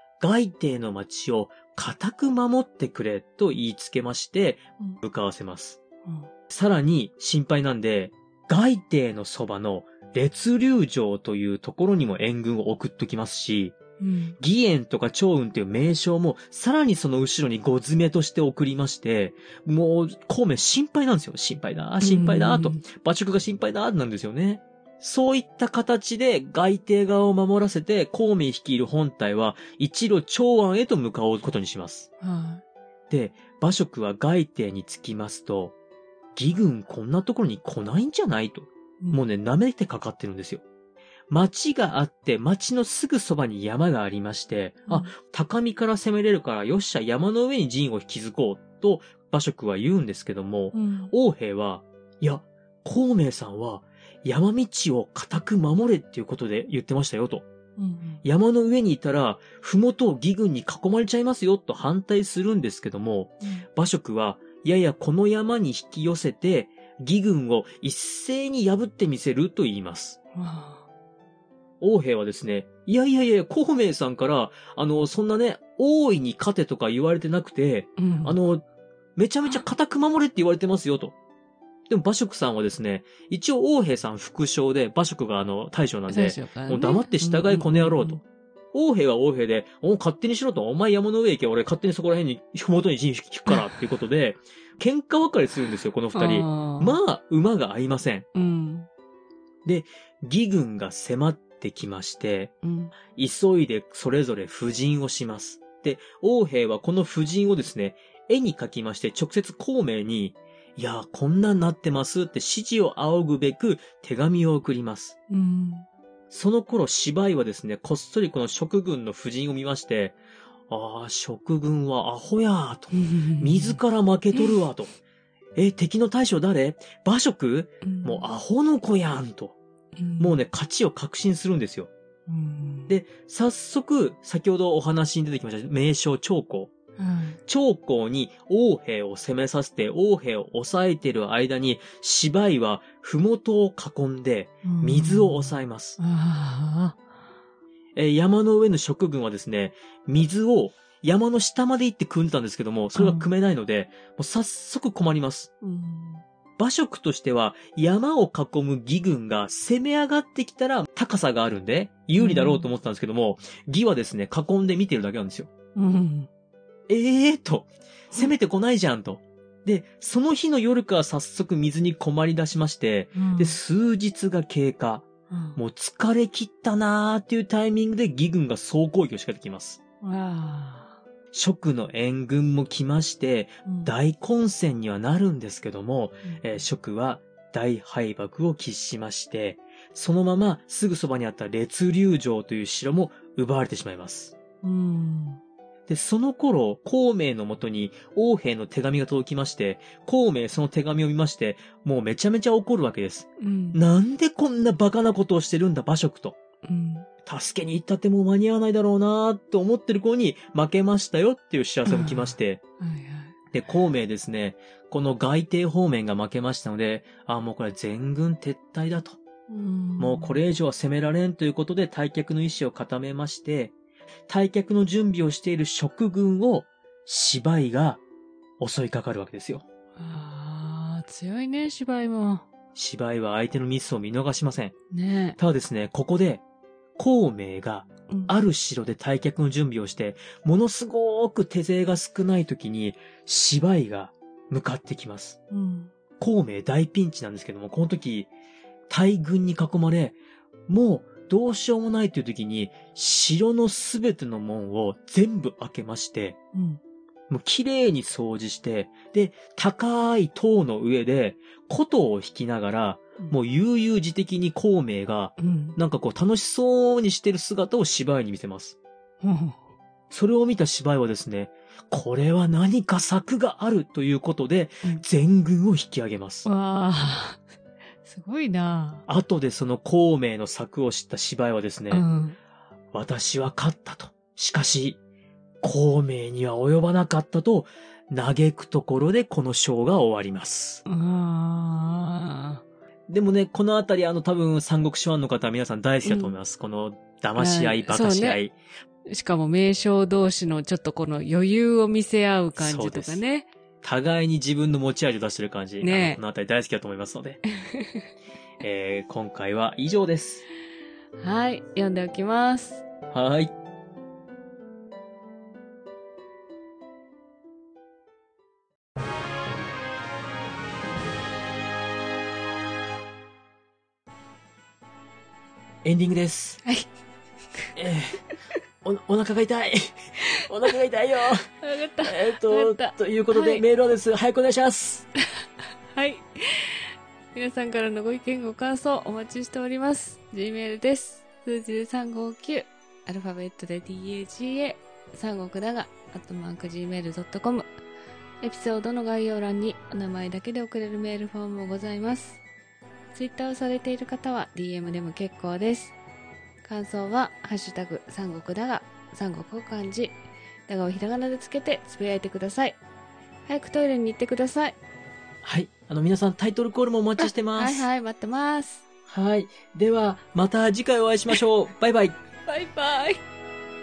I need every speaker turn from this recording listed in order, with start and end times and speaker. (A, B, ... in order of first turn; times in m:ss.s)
0:00.2-0:05.8 A
0:06.5-0:13.8 A
0:14.0-0:14.4 B
0:14.4-0:32.1 A
0:22.0-0:22.8 B
0:32.2-0:32.6 B
0:33.1-0:35.7 A
0:36.3-0:40.6 A
0:41.3-0:57.4 A
0:44.9-0:45.1 B
0:50.7-0:51.1 B
0:57.8-0:58.2 B
0:58.2-1:10.2 A
1:10.3-1:10.8 B
1:11.8-1:18.6 A
1:18.0-1:18.4 B
1:19.2-1:21.1 A
1:21.9-1:38.3 A
1:26.1-1:28.2 B
1:36.1-1:37.0 B
1:38.3-1:38.9 B
1:39.6-1:42.5 A
1:42.6-1:43.0 B
1:43.1-1:55.2 A
1:55.3-1:55.8 B
1:56.3-2:05.0 A
2:02.9-2:03.8 B
2:05.6-2:09.6 A
2:07.8-2:08.2 B
2:10.0-2:10.4 B
2:10.2-2:11.9 A
2:12.3-2:12.9 B
2:12.9-2:16.7 A
2:17.0-2:17.4 B
2:17.5-2:26.0 A
2:24.6-2:27.0 B
2:28.0-2:35.5 A
2:32.9-2:33.3 B
2:35.6-2:36.2 B
2:36.6-2:45.5 A
2:42.2-2:42.7 B
2:45.8-2:46.3 B
2:46.9-2:59.8 A
2:53.1-2:53.6 B
2:55.3-2:55.6 B
3:00.0-3:01.0 B
3:01.3-3:14.3 A
3:03.6-3:03.9 B
3:14.6-3:15.4 B
3:15.9-3:26.4 A
3:23.4-3:23.8 B
3:26.6-3:27.1 B
3:27.2-3:32.6 A
3:31.8-3:33.3 B
3:33.5-3:39.2 A
3:39.5-3:40.4 B
3:40.0-3:43.7 A
3:44.3-3:48.0 A
3:48.6-3:49.6 A
3:50.0-3:52.4 B
3:52.7-3:54.7 A
3:54.9-3:55.4 B
3:55.4-3:56.4 A
3:57.0-4:05.4 A
3:58.1-3:58.3 B
4:05.5-4:05.9 B
4:06.2-4:08.3 A
4:08.9-4:16.4 A
4:16.5-4:16.8 B
4:17.3-4:28.8 A
4:25.4-4:25.8 B
4:29.2-4:29.6 B
4:30.1-4:36.5 A
4:36.4-4:37.4 B
4:38.0-4:39.0 B
4:39.1-4:42.0 A
4:41.9-4:42.4 B
4:42.9-4:45.0 A
4:45.6-4:50.8 A
4:50.8-4:52.6 B
4:53.1-4:58.5 A
4:56.0-4:56.4 B
4:57.4-4:58.4 B
4:59.1-5:03.5 B
5:02.5-5:03.2 A
5:03.8-5:07.4 A
5:05.8-5:06.2 B
5:07.4-5:08.0 B
5:08.6-5:10.4 A
5:11.2-5:12.8 B
5:13.1-5:13.5 A
5:25.8-5:26.6 A
5:27.7-5:28.3 A
5:28.8-5:31.5 A
5:31.6-5:33.6 B
5:32.0-5:35.1 A
5:35.9-5:47.7 B
5:48.4-5:52.4 B
5:53.1-5:56.0 B
5:56.6-6:02.8 B
6:03.4-6:04.8 B
6:05.4-6:07.9 A
6:07.2-6:08.8 B
6:09.1-6:12.2 A
6:12.4-6:13.2 B